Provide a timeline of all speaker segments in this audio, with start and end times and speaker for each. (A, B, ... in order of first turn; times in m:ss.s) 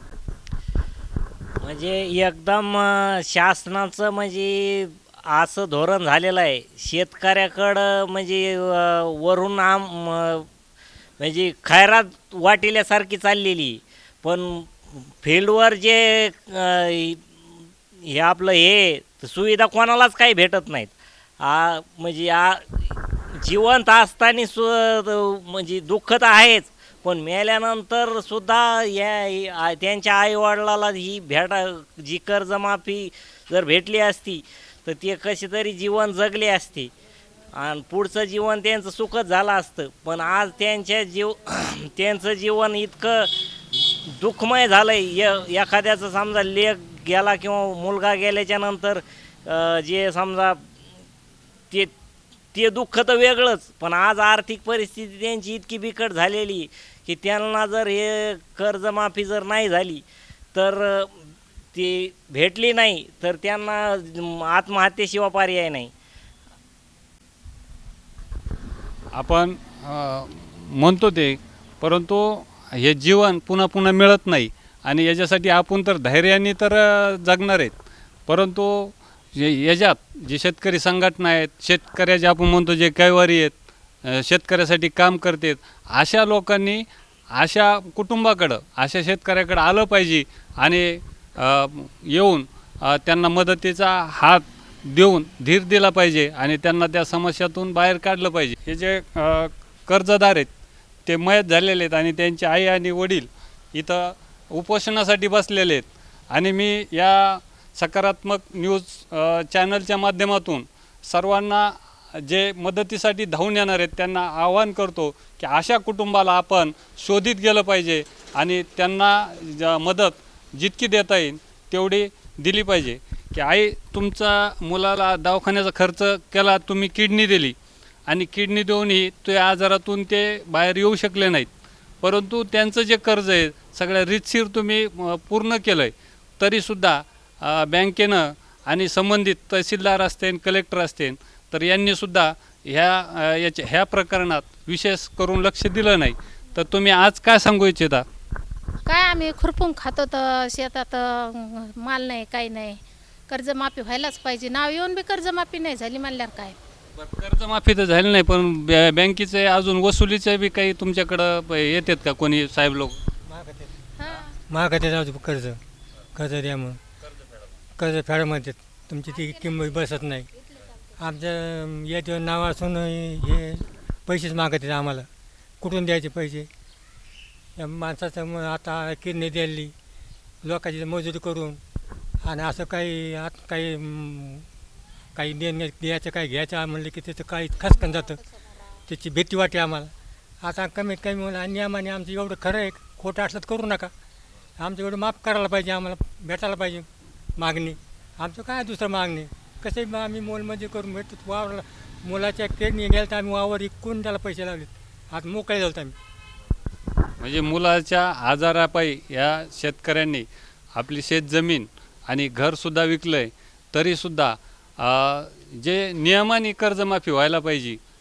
0:01.6-0:10.5 A
0:11.2-0:36.9 A
0:37.5-0:50.7 A
0:52.5-1:05.9 A
1:09.1-1:40.5 B
1:41.1-2:07.6 B
2:08.1-2:11.5 B
2:12.0-2:28.0 B
2:28.9-2:36.6 C
2:37.0-2:43.0 B
2:43.3-2:43.8 D
2:44.0-2:44.3 C
2:44.4-2:45.6 D
2:46.2-2:46.8 D
2:47.8-2:50.3 D
2:49.3-2:49.6 C
2:51.0-2:55.1 D
2:55.6-2:56.5 D
2:57.6-2:59.7 D
3:00.4-3:01.6 D
3:02.2-3:04.5 D
3:05.2-3:08.2 D
3:08.9-3:13.9 D
3:14.6-3:26.0 D
3:27.2-3:37.8 B